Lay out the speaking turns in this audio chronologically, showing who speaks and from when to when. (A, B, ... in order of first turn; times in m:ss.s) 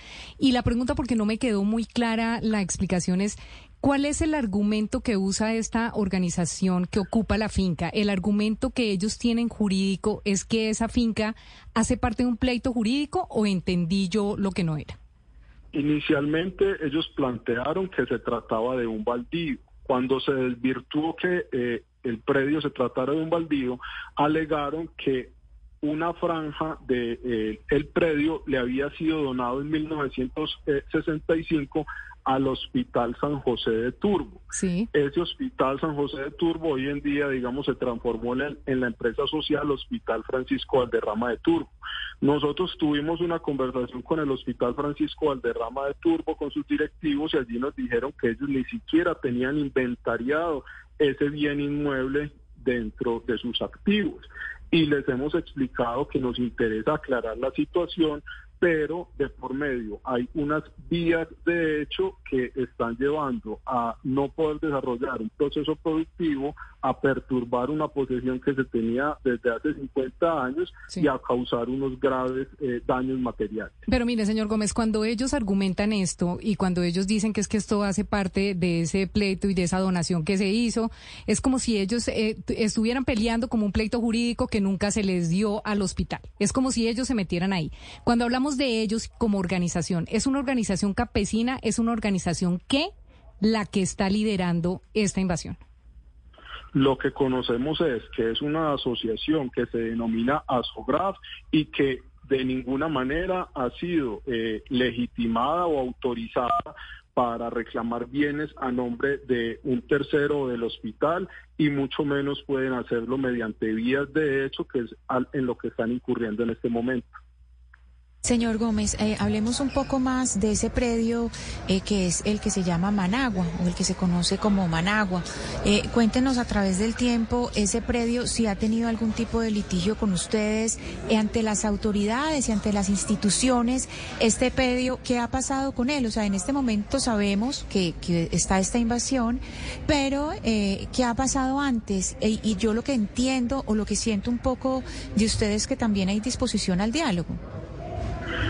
0:00.4-0:15.0 A
0:15.7-0:41.7 B
0:34.5-0:34.9 A
0:42.2-1:13.7 B
1:13.9-1:35.6 A
1:36.7-1:57.1 B
1:58.2-2:27.4 C